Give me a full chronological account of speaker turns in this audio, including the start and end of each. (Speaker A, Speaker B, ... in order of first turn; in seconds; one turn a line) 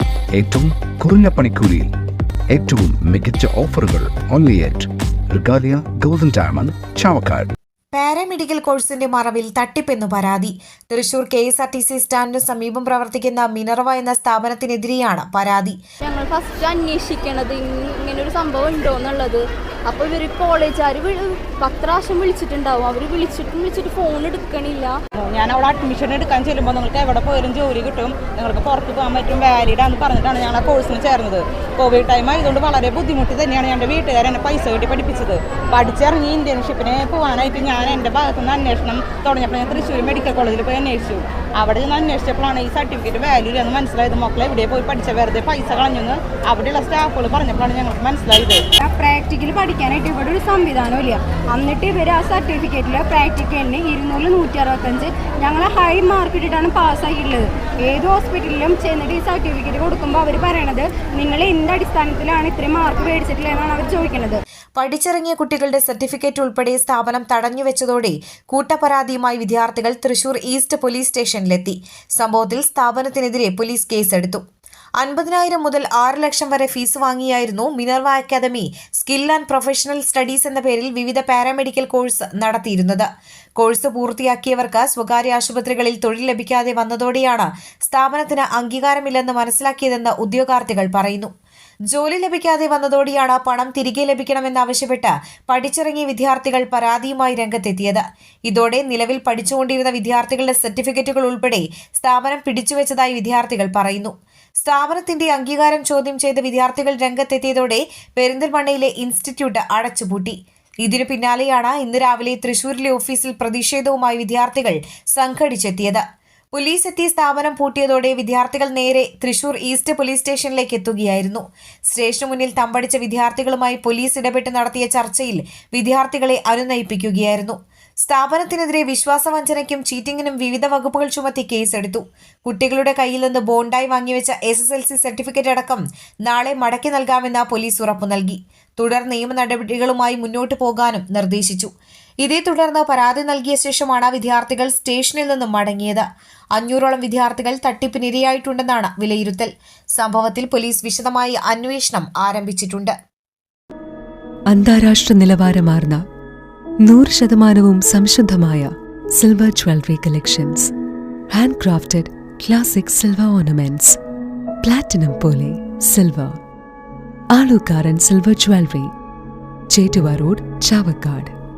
Speaker A: 0.3-1.9
Speaker A: 2.5-7.5
Speaker B: 7.9-15.8
Speaker C: 16.0-24.9
Speaker D: 25.2-48.6
Speaker E: 48.8-64.4
Speaker B: 64.8-74.4
Speaker B: 75.0-83.1
Speaker B: 83.6-91.3
Speaker B: 91.9-116.0
Speaker B: 116.5-141.7
Speaker B: 142.2-146.1
Speaker B: 146.6-152.9
Speaker F: 154.5-156.1
Speaker F: 156.8-160.7
Speaker F: 161.3-164.0
Speaker F: 164.6-166.4
Speaker F: 167.3-168.9
Speaker F: 169.7-171.3